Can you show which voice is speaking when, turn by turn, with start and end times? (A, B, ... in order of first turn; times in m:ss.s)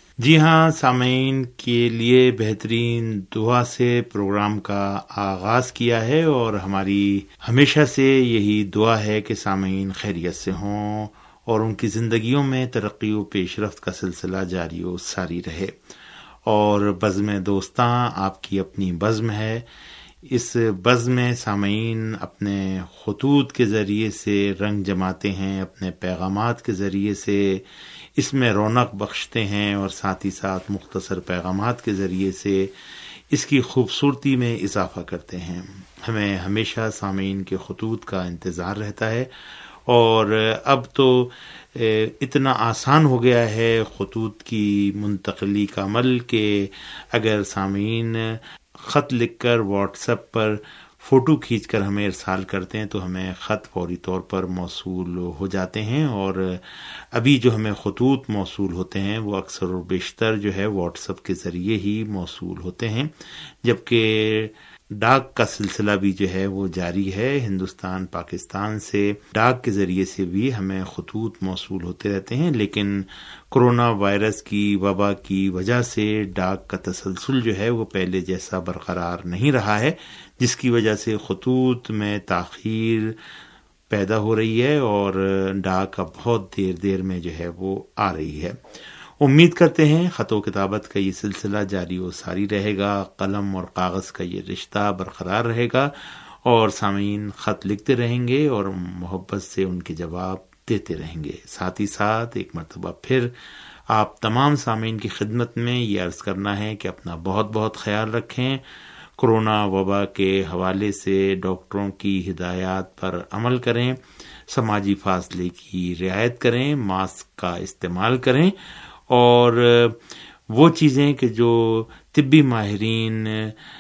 0:00.2-0:15.7 A
0:16.5-0:19.6 A
0:20.3-0:27.6 A
0:28.2-0:32.7 A
0:33.3-0:39.3 A
0:39.9-1:03.1 A
1:03.6-1:23.2 A
1:23.9-1:28.6 A
1:29.2-1:35.9 A
1:36.4-1:43.3 A
1:43.9-1:48.6 A
1:49.2-1:58.5 A
1:59.1-2:00.0 A
2:00.5-2:03.6 A